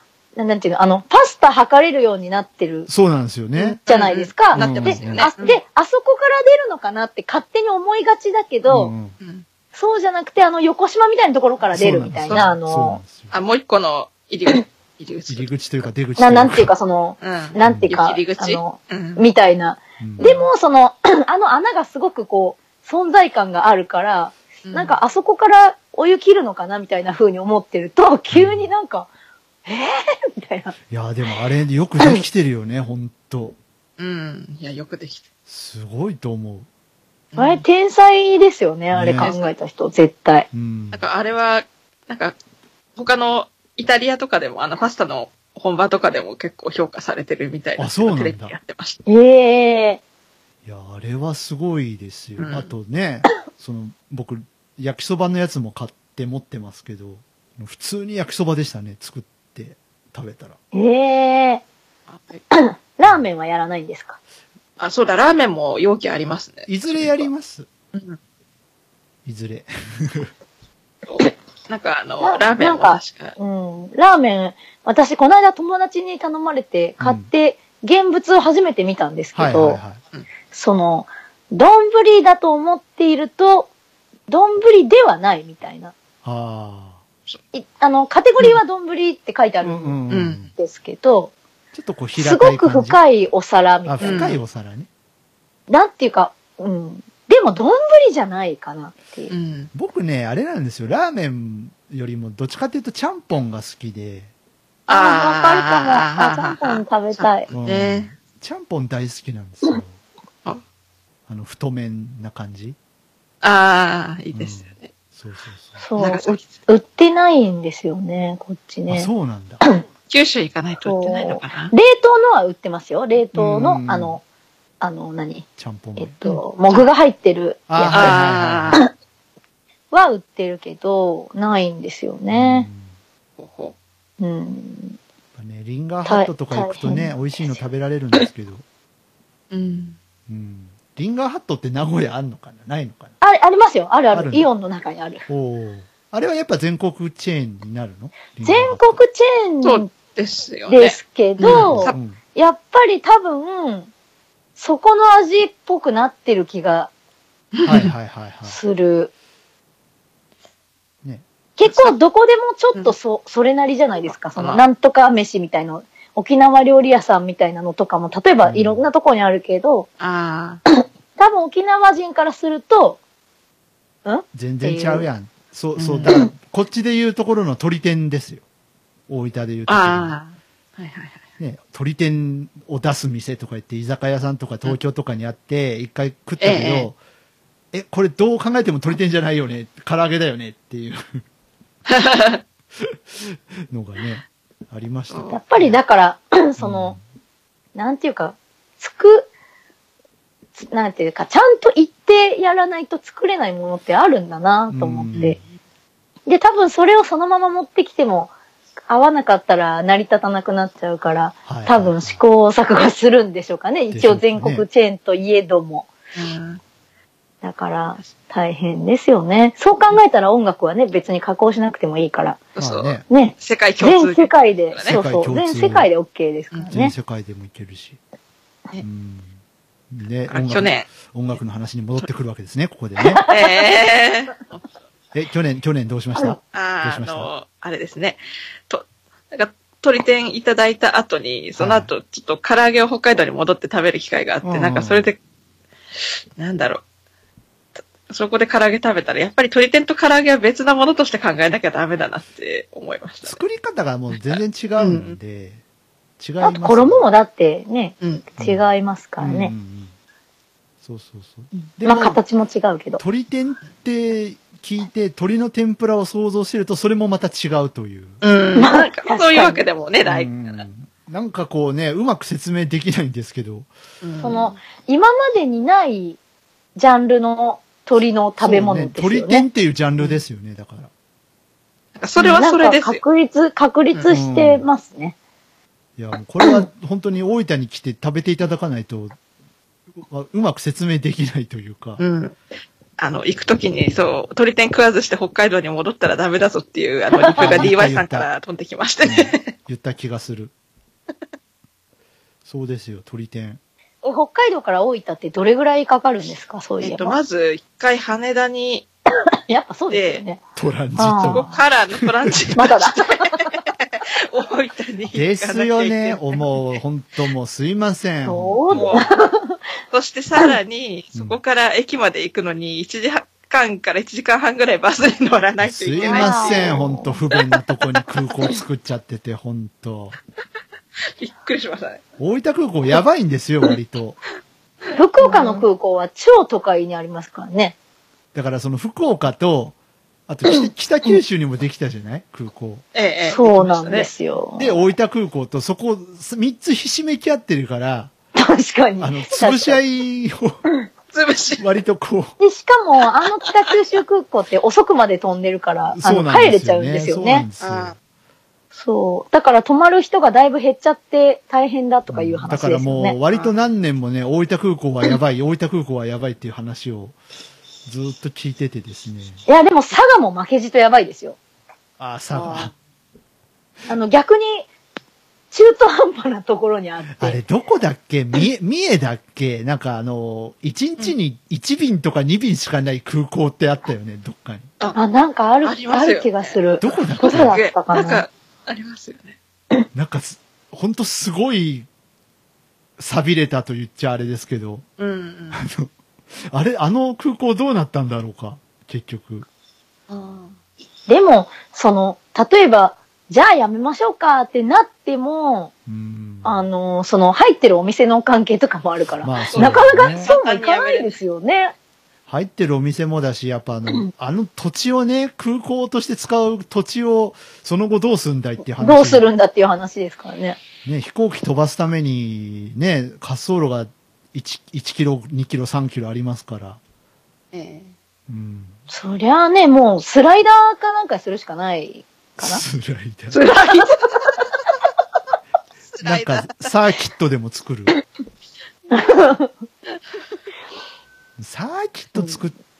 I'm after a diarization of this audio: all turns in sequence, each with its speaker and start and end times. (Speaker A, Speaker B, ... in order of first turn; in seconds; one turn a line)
Speaker A: 0.3-2.9
Speaker B: 2.9-3.8
Speaker C: 3.6-5.6
Speaker A: 3.9-8.9
Speaker B: 4.5-5.3
Speaker B: 8.7-9.2
Speaker C: 9.2-9.4
Speaker A: 9.7-13.0
Speaker B: 11.7-13.3
Speaker C: 13.3-15.8
Speaker B: 15.3-16.7
Speaker A: 16.2-29.1
Speaker C: 17.2-19.2
Speaker B: 17.6-17.9
Speaker B: 20.0-20.4
Speaker C: 24.6-24.9
Speaker B: 28.3-28.7
Speaker A: 29.6-30.7
Speaker B: 30.9-33.6
Speaker C: 34.0-35.2
Speaker B: 35.5-36.7
Speaker C: 37.3-37.6
Speaker A: 37.4-40.5
Speaker B: 38.9-39.3
Speaker C: 39.2-39.5
Speaker B: 40.5-41.0
Speaker C: 40.9-42.4
Speaker C: 43.0-49.0
Speaker B: 47.8-48.5
Speaker A: 49.1-50.0
Speaker B: 50.6-60.6
Speaker C: 52.4-52.7
Speaker A: 60.7-61.6
Speaker C: 62.1-62.4
Speaker A: 62.5-64.2
Speaker C: 64.8-67.3
Speaker B: 66.7-67.7
Speaker B: 69.2-70.3
Speaker C: 71.1-73.3
Speaker A: 72.2-79.8
Speaker B: 77.0-77.3
Speaker B: 79.3-80.0
Speaker A: 80.5-83.7
Speaker A: 84.3-85.9
Speaker B: 86.2-87.0
Speaker A: 87.5-90.0
Speaker B: 89.6-90.5
Speaker C: 90.1-90.5
Speaker A: 90.5-91.3
Speaker B: 91.7-93.0
Speaker A: 92.2-94.3
Speaker B: 93.8-94.9
Speaker C: 94.0-94.4
Speaker A: 95.7-99.3
Speaker C: 99.3-99.7
Speaker B: 99.7-104.3
Speaker C: 104.9-108.1
Speaker A: 104.9-107.5
Speaker B: 107.5-110.0
Speaker B: 111.3-112.8
Speaker C: 113.4-114.9
Speaker B: 114.3-115.8
Speaker A: 115.8-119.1
Speaker C: 116.0-116.5
Speaker B: 118.9-119.6
Speaker C: 120.1-121.7
Speaker A: 120.8-124.2
Speaker B: 123.3-124.2
Speaker A: 124.8-125.5
Speaker B: 125.6-126.2
Speaker A: 126.0-128.1
Speaker C: 126.2-126.9
Speaker B: 127.7-128.8
Speaker C: 127.9-128.8
Speaker A: 129.9-132.7
Speaker B: 132.3-132.9
Speaker C: 133.4-133.7
Speaker A: 134.2-135.0
Speaker B: 135.3-138.6
Speaker A: 136.1-137.1
Speaker C: 139.5-140.0
Speaker B: 140.3-143.1
Speaker A: 143.2-145.2
Speaker B: 144.1-144.5
Speaker B: 145.3-149.0
Speaker A: 148.4-149.9
Speaker C: 149.6-151.9
Speaker A: 150.7-153.9
Speaker B: 151.5-152.2
Speaker A: 154.6-156.9
Speaker C: 157.5-157.9
Speaker B: 157.6-158.6
Speaker A: 158.4-159.1
Speaker A: 161.6-169.9
Speaker C: 161.6-161.9
Speaker C: 164.1-164.6
Speaker B: 168.4-168.8
Speaker C: 170.0-170.6
Speaker A: 171.2-173.0
Speaker A: 174.0-175.1
Speaker B: 174.3-178.4
Speaker C: 175.8-176.1
Speaker B: 179.1-180.1
Speaker C: 179.7-181.2
Speaker B: 181.4-187.0
Speaker C: 186.4-186.9
Speaker B: 187.7-191.2
Speaker C: 191.9-192.4
Speaker B: 192.8-195.8
Speaker C: 195.1-195.4
Speaker A: 195.3-197.0
Speaker B: 196.6-197.0
Speaker A: 197.7-199.3
Speaker A: 200.6-205.4
Speaker B: 204.7-205.4
Speaker A: 206.3-208.3
Speaker A: 208.9-215.9
Speaker B: 211.4-212.2
Speaker B: 213.9-214.7
Speaker C: 216.1-216.6
Speaker A: 217.4-222.4
Speaker C: 222.5-225.0
Speaker B: 222.6-223.0
Speaker A: 223.1-226.9
Speaker B: 224.8-225.9
Speaker B: 226.7-228.0
Speaker B: 228.8-229.3
Speaker B: 229.9-233.2
Speaker C: 230.3-230.9
Speaker A: 233.0-233.5
Speaker C: 233.3-234.7
Speaker B: 235.1-237.3
Speaker C: 236.5-245.2
Speaker B: 241.6-241.9
Speaker B: 244.4-245.1
Speaker C: 246.4-246.8
Speaker C: 248.1-253.4
Speaker B: 253.2-255.6
Speaker C: 254.1-255.2
Speaker B: 256.2-257.1
Speaker A: 256.4-259.5
Speaker B: 258.4-258.7
Speaker B: 259.2-259.9
Speaker B: 260.8-262.2
Speaker A: 261.8-263.0
Speaker B: 263.0-268.2
Speaker C: 268.2-270.6
Speaker A: 268.5-269.6
Speaker B: 270.1-273.7
Speaker C: 274.0-274.6
Speaker A: 274.2-276.2
Speaker A: 276.8-279.4
Speaker B: 278.4-280.9
Speaker C: 281.9-283.0
Speaker A: 282.2-285.1
Speaker B: 284.1-284.6
Speaker B: 286.0-289.1
Speaker B: 290.0-292.0
Speaker C: 292.0-292.4
Speaker C: 293.0-299.5
Speaker A: 297.2-297.6
Speaker B: 297.4-298.3
Speaker B: 299.0-300.5
Speaker B: 302.4-303.6
Speaker A: 304.0-307.2
Speaker C: 306.8-308.9
Speaker A: 309.5-310.4
Speaker C: 309.9-310.2
Speaker B: 310.6-312.5
Speaker A: 311.0-311.5
Speaker C: 311.2-316.6
Speaker A: 312.5-313.5
Speaker B: 315.1-319.0
Speaker A: 318.2-319.6
Speaker C: 318.7-319.1
Speaker C: 319.9-327.4
Speaker B: 325.6-330.2
Speaker A: 326.0-327.2
Speaker C: 331.1-332.0
Speaker B: 332.2-334.2
Speaker A: 334.9-337.8
Speaker C: 335.2-335.6
Speaker B: 338.3-339.8
Speaker B: 340.3-342.8
Speaker C: 342.9-344.1
Speaker A: 343.2-344.8
Speaker B: 344.6-348.1
Speaker A: 348.4-349.8
Speaker B: 349.0-350.6
Speaker C: 351.1-351.6
Speaker B: 351.6-352.4
Speaker A: 352.4-357.4
Speaker B: 355.9-357.9
Speaker C: 357.6-357.9
Speaker A: 358.8-363.2
Speaker B: 362.1-367.1
Speaker B: 367.9-369.4
Speaker A: 369.5-371.4
Speaker B: 372.0-372.7
Speaker C: 372.3-372.7
Speaker A: 373.9-374.7
Speaker A: 375.5-377.4
Speaker B: 377.1-384.7
Speaker A: 384.9-388.2
Speaker C: 385.6-386.6
Speaker B: 386.8-387.6
Speaker C: 387.2-389.4
Speaker B: 389.9-391.9
Speaker B: 393.0-394.8
Speaker C: 395.0-395.6
Speaker B: 395.5-399.5
Speaker C: 400.1-400.6
Speaker A: 401.1-405.7
Speaker B: 405.9-406.7
Speaker A: 406.4-411.7
Speaker B: 409.2-410.3
Speaker C: 409.5-411.2
Speaker B: 412.3-419.3
Speaker A: 418.8-420.6
Speaker B: 420.8-426.8
Speaker C: 427.5-427.9
Speaker B: 428.3-428.8
Speaker A: 428.9-432.6
Speaker B: 432.4-433.4
Speaker C: 433.3-434.2
Speaker C: 435.9-436.7
Speaker B: 436.0-437.9
Speaker A: 438.9-439.5
Speaker B: 441.4-442.6